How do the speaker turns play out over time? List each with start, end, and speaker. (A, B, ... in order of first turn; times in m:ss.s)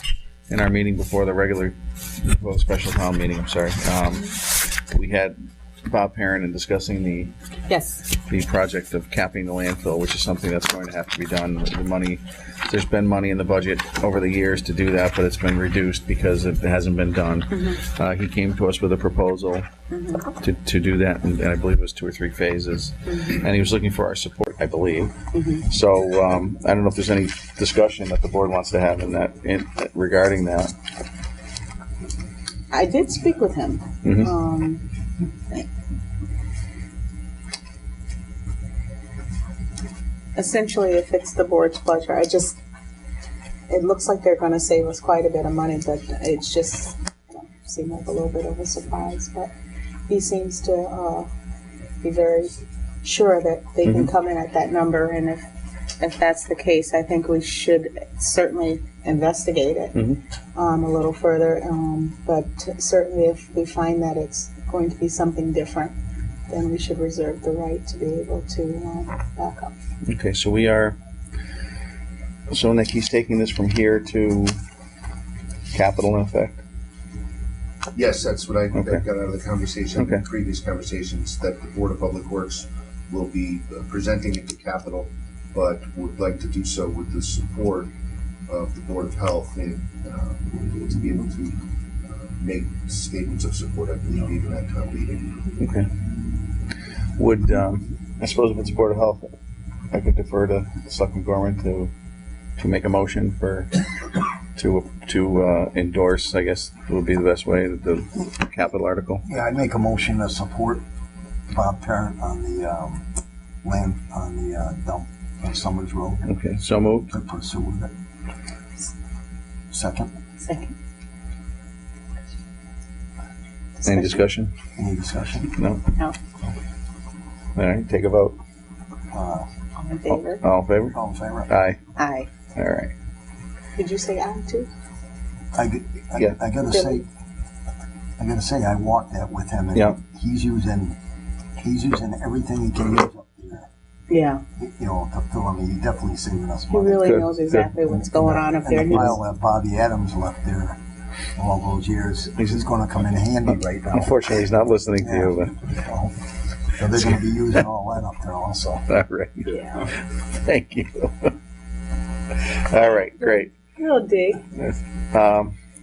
0:00.5-0:07.3 A
0:07.7-0:08.1 B
0:08.1-0:19.7 A
0:19.9-0:20.4 B
0:20.4-0:30.7 A
0:25.3-0:25.7 B
0:32.7-0:34.9 B
0:34.0-0:34.3 A
0:40.4-0:42.6 B
0:43.7-0:49.5 B
0:50.1-0:51.3 B
0:52.0-0:55.4 B
0:56.0-1:05.9 B
1:06.5-1:09.7 B
1:10.1-1:11.0 A
1:12.5-1:14.6 A
1:15.7-1:16.6 A
1:17.9-1:27.9 C
1:28.5-1:35.4 C
1:35.6-1:35.9 A
1:37.2-1:39.3 A
1:39.9-1:41.9 A
1:42.6-1:43.7 A
1:44.5-1:49.2 A
1:49.3-1:50.8 D
1:51.5-1:53.1 D
1:53.6-1:56.3 D
1:56.3-1:57.1 A
1:57.1-1:57.9 D
1:59.7-2:00.1 D
2:00.4-2:00.7 B
2:03.8-2:04.2 B
2:03.8-2:04.5 A
2:04.8-2:05.5 D
2:05.6-2:05.8 A
2:07.6-2:08.4 A
2:09.1-2:09.5 D
2:09.8-2:10.4 B
2:10.1-2:11.0 A
2:10.9-2:11.5 D
2:11.5-2:11.8 A
2:12.0-2:12.3 B
2:12.6-2:12.9 A
2:13.8-2:14.7 B
2:15.5-2:17.0 D
2:16.7-2:17.0 B
2:18.2-2:21.0 D
2:21.6-2:23.7 D
2:24.1-2:24.4 B
2:24.6-2:30.8 D
2:26.7-2:29.2 B
2:31.4-2:34.5 D
2:33.9-2:35.6 A
2:35.0-2:38.9 D
2:38.9-2:41.3 A
2:39.5-2:39.9 B
2:42.4-2:43.5 A
2:43.2-2:44.4 B
2:44.6-2:45.6 A